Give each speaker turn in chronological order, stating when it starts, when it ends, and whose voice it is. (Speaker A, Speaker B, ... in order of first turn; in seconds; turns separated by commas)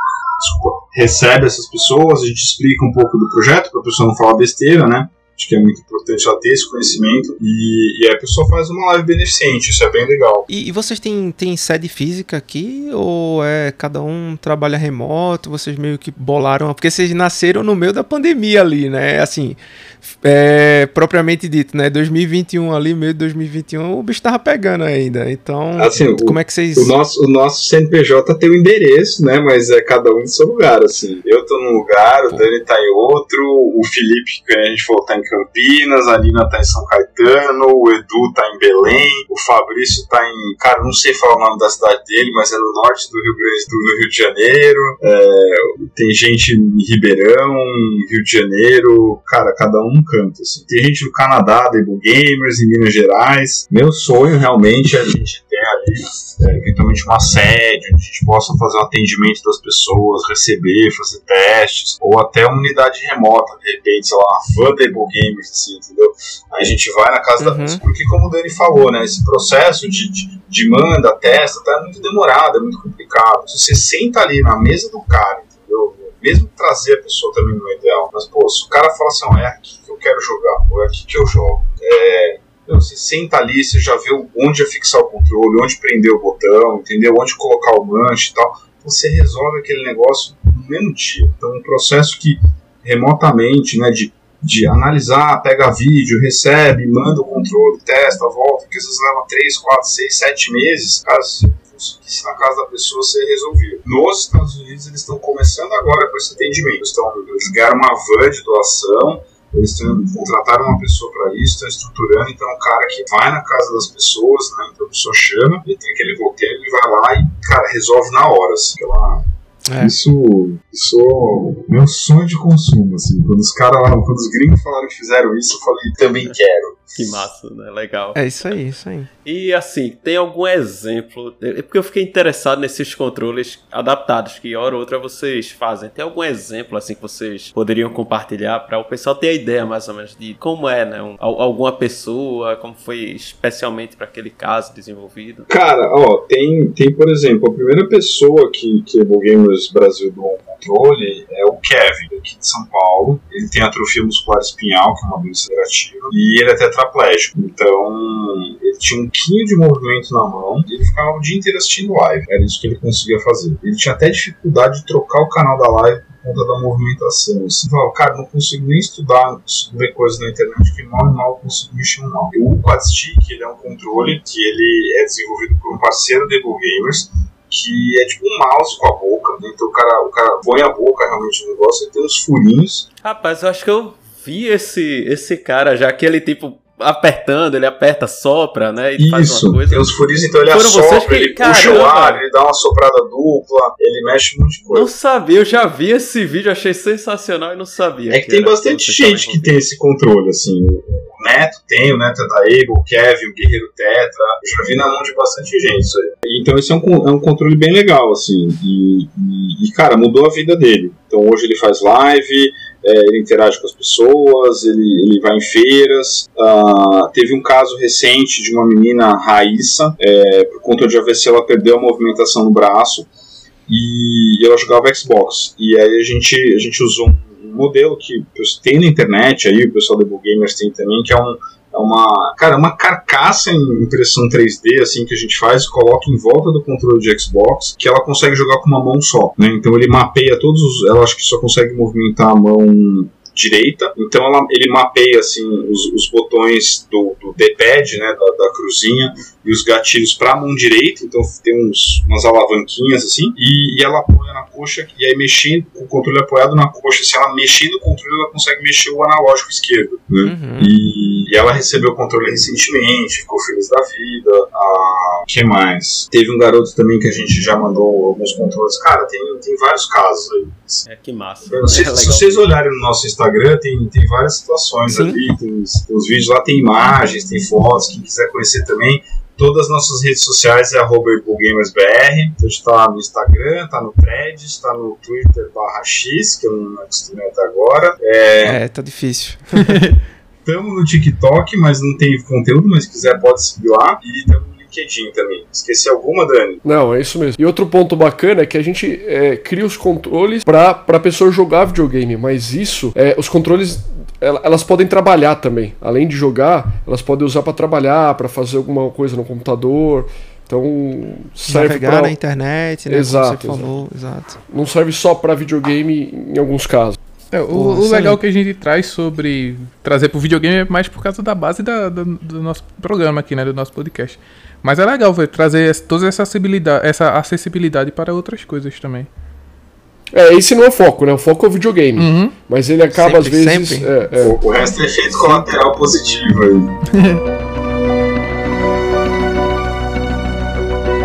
Speaker A: 0.4-10.5, Speaker B: 10.5-26.9, Speaker A: 25.8-127.2, Speaker B: 67.4-67.8, Speaker B: 119.7-119.9, Speaker C: 127.0-128.2, Speaker B: 128.2-129.1, Speaker C: 129.2-145.5, Speaker A: 145.5-182.9, Speaker C: 183.0-189.9, Speaker A: 189.0-194.9, Speaker C: 190.5-192.2, Speaker C: 194.7-199.6, Speaker A: 198.1-223.1, Speaker A: 223.7-270.9, Speaker B: 260.2-260.7, Speaker C: 270.9-272.5, Speaker A: 271.4-288.6, Speaker B: 274.9-275.2, Speaker B: 288.4-289.8, Speaker D: 289.6-289.9, Speaker A: 290.4-296.6, Speaker E: 296.6-312.1, Speaker B: 311.5-314.4, Speaker E: 312.9-313.7, Speaker E: 314.5-317.0, Speaker D: 317.3-329.1, Speaker B: 317.5-318.2, Speaker E: 330.1-334.4, Speaker D: 332.0-332.4, Speaker B: 332.9-333.9, Speaker A: 334.2-336.8, Speaker D: 336.9-337.2